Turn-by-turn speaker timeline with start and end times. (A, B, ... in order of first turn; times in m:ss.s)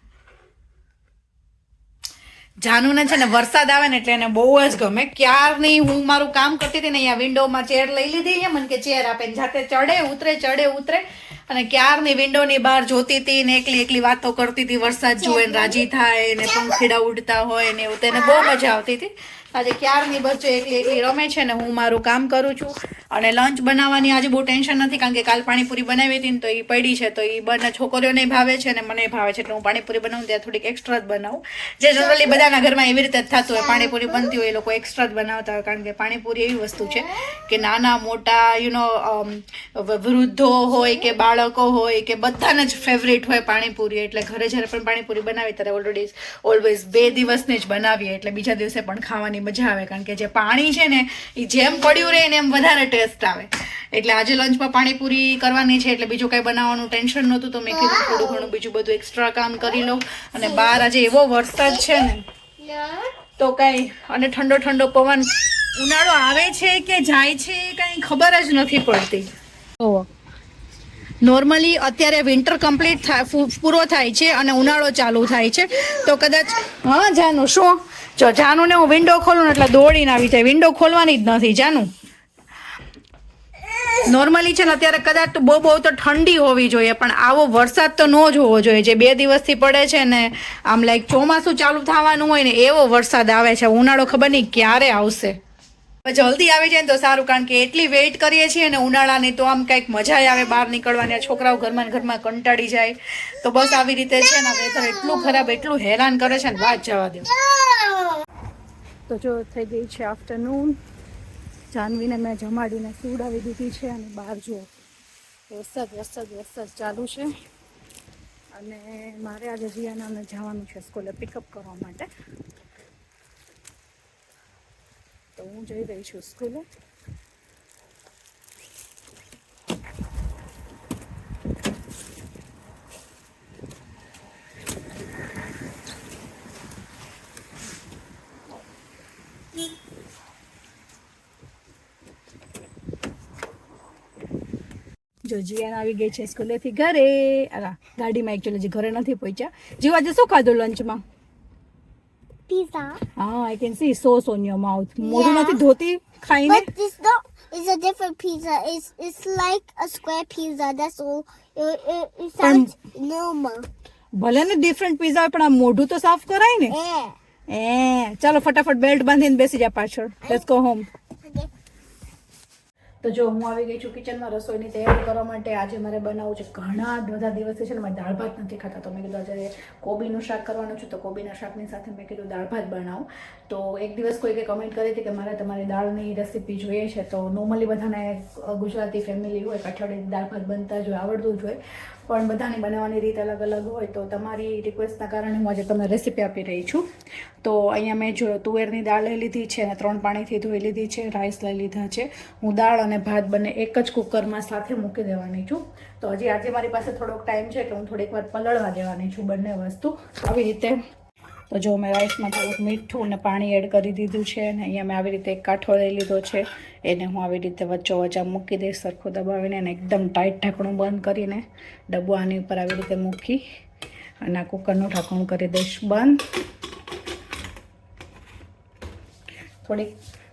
0:02.6-1:02.2 A
0:15.2-0:15.8 B
0:18.1-0:18.5 B
0:32.0-0:32.4 B
0:33.5-0:34.3 B
0:51.6-0:52.2 B
0:57.7-0:58.5 B
1:00.4-1:00.8 B
1:01.6-1:03.1 B
1:03.4-1:09.3 A
1:09.8-1:10.1 A
1:11.2-1:21.9 A
1:24.0-1:35.3 A
1:36.0-1:47.3 A
1:44.5-1:45.6 B
1:47.3-1:48.2 B
1:49.1-1:50.8 A
1:51.7-1:54.7 A
1:55.5-1:57.3 A
1:58.5-2:02.1 A
2:05.4-2:06.6 A
2:25.2-2:31.0 A
2:32.5-2:33.0 B
2:33.2-2:36.7 A
2:35.0-2:35.6 B
2:36.4-2:43.7 B
2:42.4-2:42.7 A
2:44.1-2:46.8 A
2:46.7-2:47.2 B
2:47.5-2:50.9 A
2:51.2-2:51.5 B
2:53.0-3:16.8 A
3:17.4-3:30.8 A
3:31.5-3:43.4 A
3:44.2-3:46.2 A
3:49.6-3:49.9 A